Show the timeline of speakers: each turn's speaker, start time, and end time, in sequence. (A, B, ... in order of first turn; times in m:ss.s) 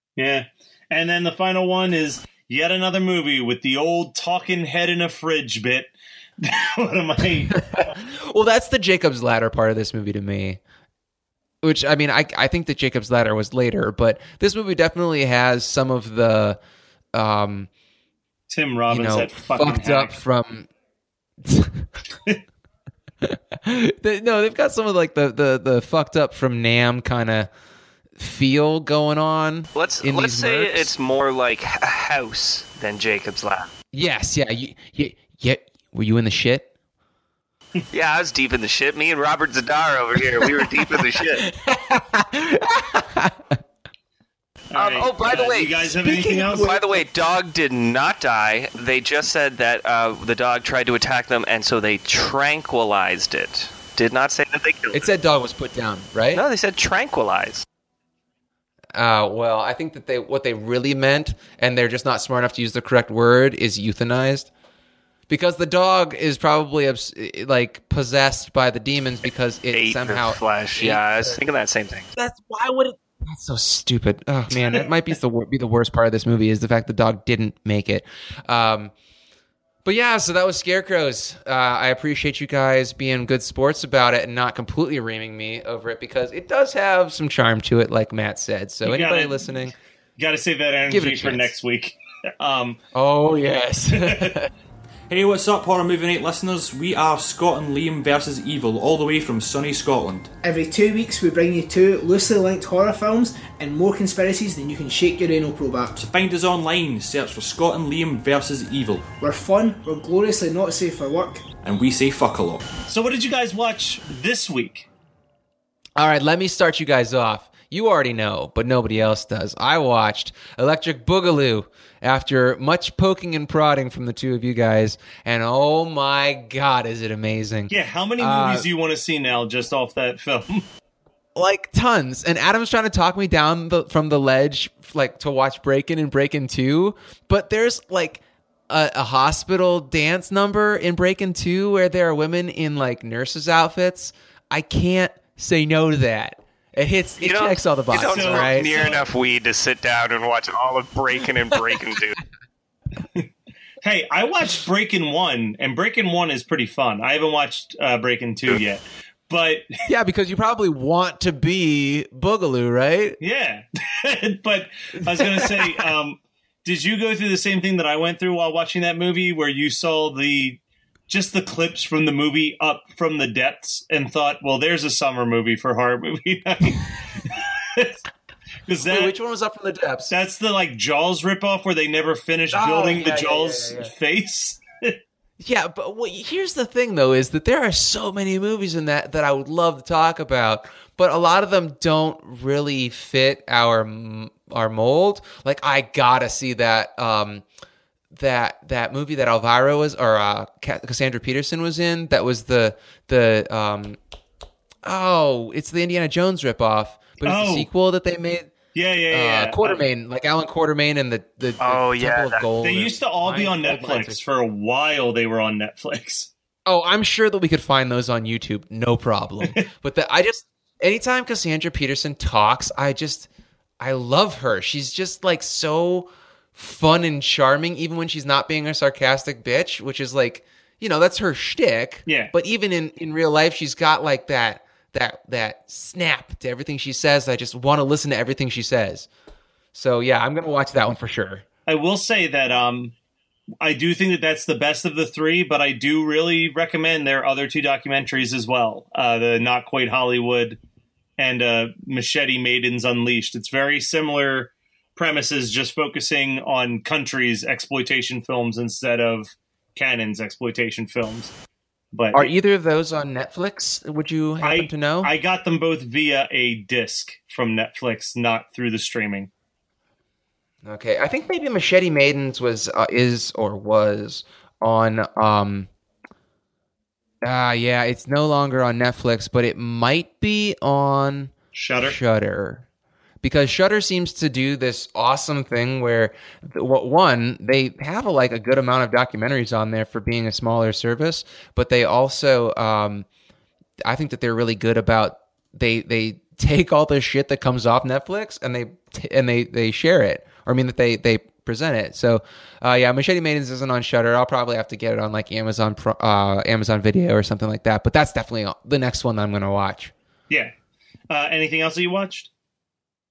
0:00.2-0:07.6 A
0:07.5-0:10.6 B
0:11.6-0:16.6 B
0:17.1-0:17.7 B
0:18.5-0:20.2 A
0:18.9-0:20.7 B
0:21.4-0:21.9 B
0:23.2-0:27.5 B
0:28.2-0:30.9 B
0:29.8-0:33.7 C
0:33.9-0:36.7 B
0:37.9-0:41.5 C
0:40.4-0:43.6 B
0:44.7-0:46.7 A
0:44.8-0:55.1 C
0:45.9-0:47.0 B
0:54.9-0:56.4 B
0:56.4-0:57.6 C
0:58.9-1:04.5 B
1:05.3-1:11.4 B
1:09.7-1:12.1 C
1:12.2-1:18.9 B
1:19.8-1:29.8 B
1:28.8-1:29.4 A
1:30.2-1:32.8 A
1:30.9-1:31.5 B
1:32.9-1:34.5 B
1:33.9-1:34.3 A
1:35.1-1:40.3 D
1:40.4-1:46.0 E
1:46.0-1:49.1 D
1:49.2-1:51.4 E
1:51.6-1:52.7 D
1:52.9-1:54.9 A
1:56.0-2:08.7 B
2:07.7-2:10.7 A
2:11.4-2:28.9 B
2:27.2-2:32.2 C
2:27.9-2:29.0 A
2:33.8-2:39.7 A
2:39.9-2:43.2 B
2:43.2-2:58.0 A
2:45.1-2:45.8 B
2:58.7-2:59.1 A
2:58.8-3:00.1 B
3:00.1-3:05.0 A
3:02.5-3:03.9 B
3:05.4-3:17.4 B
3:18.1-3:24.0 B
3:24.8-3:28.5 B
3:27.2-3:27.7 A
3:28.7-3:29.8 A
3:29.1-3:34.2 B
3:31.6-3:32.5 C
3:32.6-3:36.3 A
3:36.7-3:43.3 B
3:43.8-3:59.1 B
3:52.1-3:52.3 A
3:59.7-4:01.4 B
4:01.7-4:03.0 A
4:03.6-4:10.6 A
4:11.2-4:21.3 A
4:21.9-4:22.3 A
4:22.1-4:25.1 B
4:24.4-4:29.3 A
4:30.6-4:35.7 B
4:37.2-4:42.6 B
4:41.5-4:42.0 A
4:43.2-4:53.1 B
4:53.8-5:09.9 B
5:11.1-5:12.3 A